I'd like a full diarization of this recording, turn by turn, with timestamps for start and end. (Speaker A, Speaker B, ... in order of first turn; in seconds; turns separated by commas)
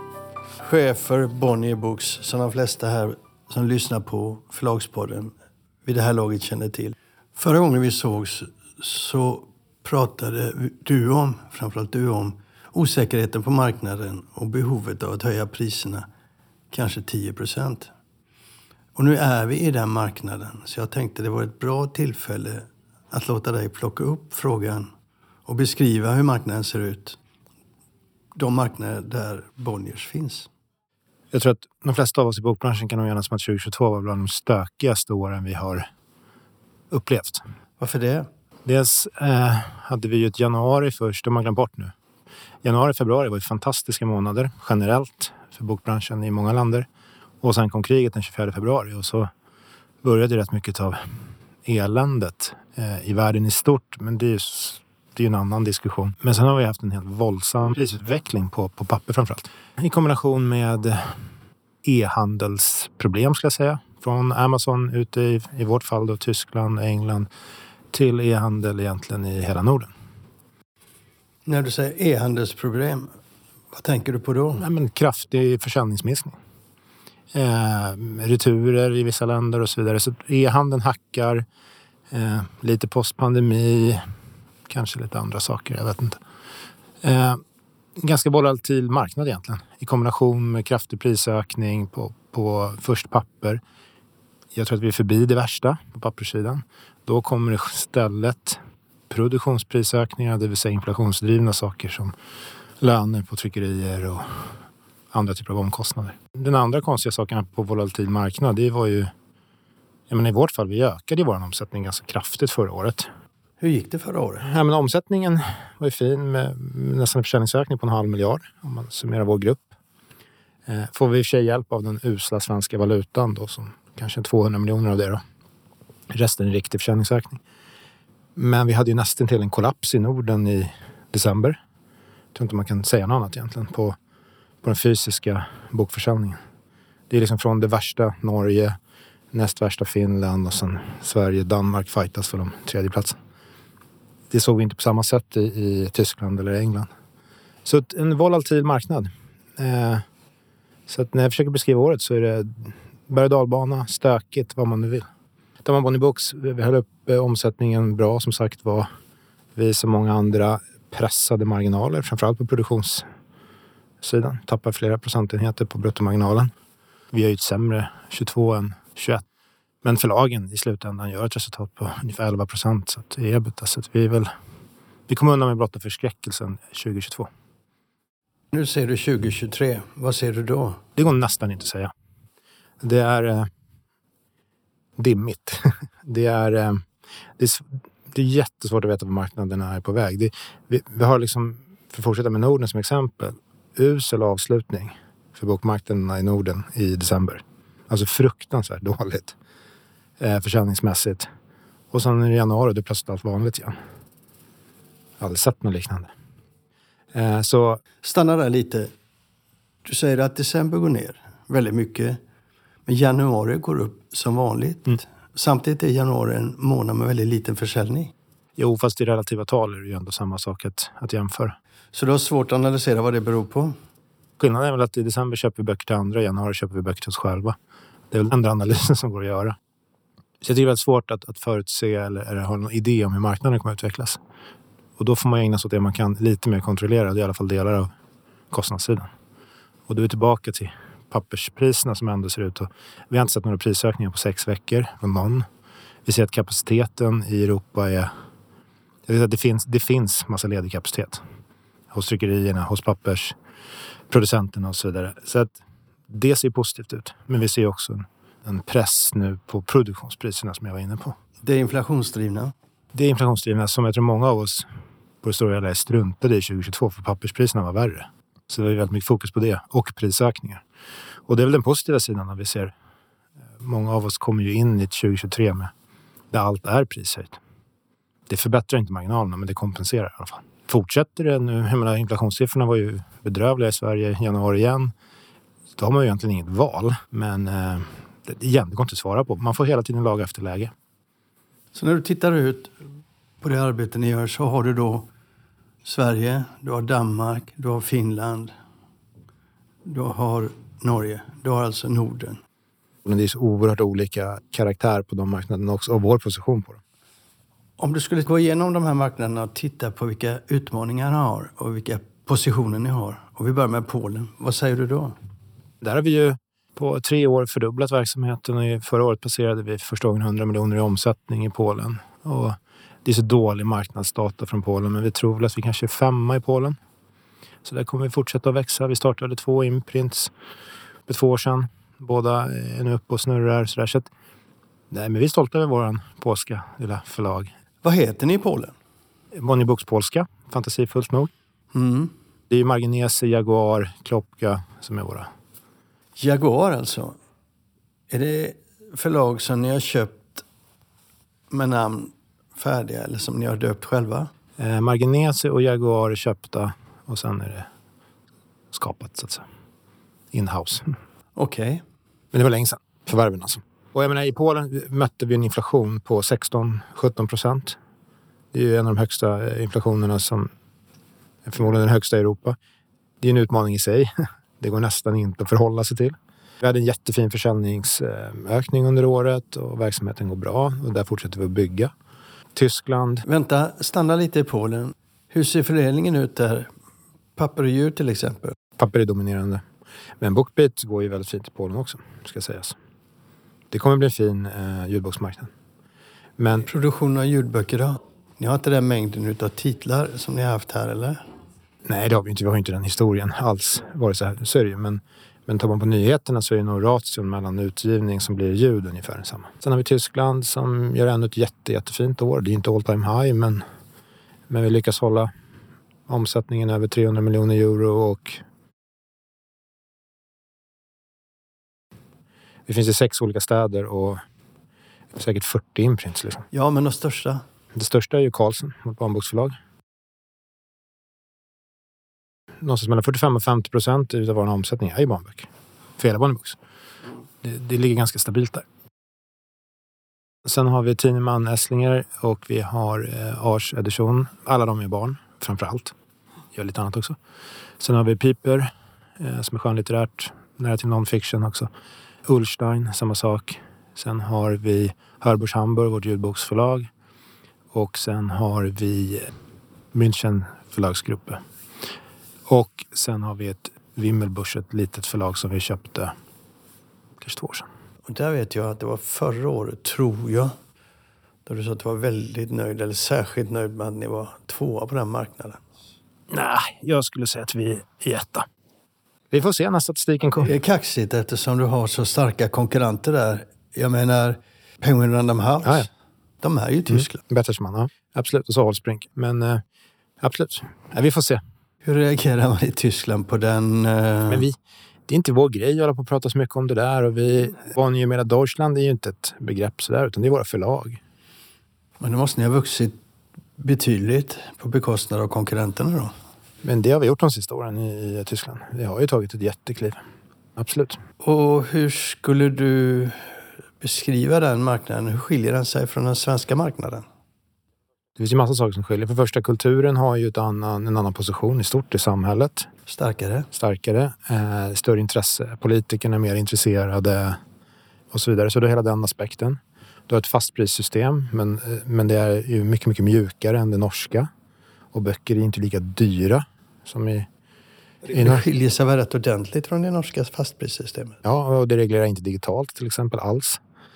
Speaker A: 0.6-5.3, Speaker A: 5.8-16.1, Speaker A: 16.7-17.9, Speaker A: 18.9-24.9, Speaker A: 25.4-27.2, Speaker A: 28.4-30.5, Speaker B: 31.3-35.9, Speaker B: 36.9-37.4, Speaker A: 37.8-38.3, Speaker B: 38.6-41.9, Speaker B: 42.6-46.9, Speaker B: 47.4-49.3, Speaker B: 50.0-51.0, Speaker B: 51.6-61.3, Speaker B: 61.8-67.3, Speaker B: 67.9-69.9, Speaker A: 71.5-73.1, Speaker A: 73.7-74.6, Speaker B: 74.6-76.3, Speaker B: 77.3-81.5, Speaker B: 82.1-84.0, Speaker B: 84.7-86.2, Speaker B: 87.0-87.4, Speaker B: 88.0-93.6, Speaker B: 94.5-102.1, Speaker B: 102.8-104.5, Speaker B: 105.1-109.1, Speaker B: 110.1-113.1, Speaker A: 113.6-114.5, Speaker B: 114.4-119.7, Speaker B: 120.7-125.2, Speaker B: 126.1-127.4, Speaker B: 128.4-131.6, Speaker B: 132.3-133.9, Speaker B: 134.6-136.4, Speaker B: 137.1-138.8, Speaker B: 139.3-143.2, Speaker B: 144.3-146.9, Speaker B: 147.6-150.0, Speaker B: 150.9-155.1, Speaker B: 155.6-158.9, Speaker B: 159.6-163.0, Speaker B: 164.0-166.5, Speaker B: 167.1-169.2, Speaker B: 169.8-174.3, Speaker B: 175.1-177.3, Speaker A: 178.5-180.8, Speaker B: 180.9-181.9, Speaker B: 182.8-183.5, Speaker B: 185.0-186.8, Speaker B: 187.4-199.4, Speaker B: 200.2-201.3, Speaker B: 201.9-203.8, Speaker B: 205.2-206.1, Speaker B: 207.1-207.8, Speaker A: 208.0-208.9, Speaker A: 209.8-212.2, Speaker A: 212.9-218.1, Speaker B: 218.6-221.6, Speaker A: 221.9-223.7, Speaker B: 224.4-227.6, Speaker B: 228.1-229.6, Speaker B: 230.4-234.2, Speaker B: 235.0-237.9, Speaker B: 238.5-239.1, Speaker B: 239.9-245.4, Speaker B: 246.0-248.1, Speaker B: 249.1-251.2, Speaker B: 251.9-253.4, Speaker B: 254.1-255.6, Speaker B: 256.1-261.1, Speaker A: 261.4-262.5, Speaker B: 262.9-264.7, Speaker B: 265.2-270.6, Speaker B: 271.3-272.7, Speaker B: 273.6-275.7, Speaker B: 276.3-277.4, Speaker B: 278.3-284.9, Speaker B: 285.8-290.7, Speaker A: 291.7-292.7, Speaker A: 293.4-295.1, Speaker A: 295.8-298.5, Speaker A: 299.9-302.4, Speaker B: 303.0-306.8, Speaker A: 307.8-315.1, Speaker B: 315.8-326.8, Speaker B: 327.6-330.3, Speaker B: 331.1-334.1, Speaker B: 334.9-337.5, Speaker A: 337.8-338.7, Speaker B: 339.3-341.3, Speaker A: 341.7-342.1, Speaker B: 342.5-345.3, Speaker A: 346.2-347.2, Speaker A: 348.1-350.4, Speaker A: 351.5-354.3, Speaker B: 354.6-357.7, Speaker B: 358.7-359.4, Speaker B: 360.3-360.9, Speaker A: 361.4-361.8, Speaker B: 362.3-367.8, Speaker B: 368.5-370.5, Speaker B: 371.4-372.6, Speaker B: 373.2-381.9, Speaker B: 382.5-383.2, Speaker A: 383.2-386.7, Speaker A: 387.4-388.5, Speaker B: 388.8-389.6, Speaker B: 390.2-392.8, Speaker B: 393.7-395.5, Speaker B: 396.4-396.7, Speaker A: 396.6-401.2, Speaker B: 401.9-413.6, Speaker B: 414.5-415.3, Speaker B: 416.1-418.4, Speaker B: 422.7-424.2, Speaker B: 425.1-426.4, Speaker A: 426.5-427.4, Speaker B: 427.7-429.6, Speaker B: 432.6-436.6, Speaker B: 437.4-438.6, Speaker B: 440.4-445.9, Speaker B: 446.5-447.2, Speaker B: 447.8-451.7, Speaker B: 452.2-456.9, Speaker B: 457.7-459.3, Speaker B: 459.9-461.4, Speaker B: 462.5-466.1, Speaker B: 467.2-467.7, Speaker A: 468.1-470.6, Speaker A: 471.4-475.6, Speaker B: 476.3-478.5, Speaker B: 479.3-480.5, Speaker A: 480.4-485.9, Speaker A: 486.4-487.2, Speaker B: 486.9-489.6, Speaker B: 490.2-491.4, Speaker A: 491.8-494.4, Speaker B: 494.3-494.6, Speaker B: 495.1-501.0, Speaker A: 502.0-503.0, Speaker A: 503.6-506.1, Speaker B: 506.6-510.0, Speaker B: 510.6-511.0, Speaker A: 511.2-517.0, Speaker B: 518.2-522.7, Speaker A: 522.9-523.5, Speaker B: 523.5-527.4, Speaker B: 528.1-534.3, Speaker B: 534.9-537.3, Speaker A: 538.1-541.2, Speaker B: 538.1-538.4, Speaker B: 541.2-543.6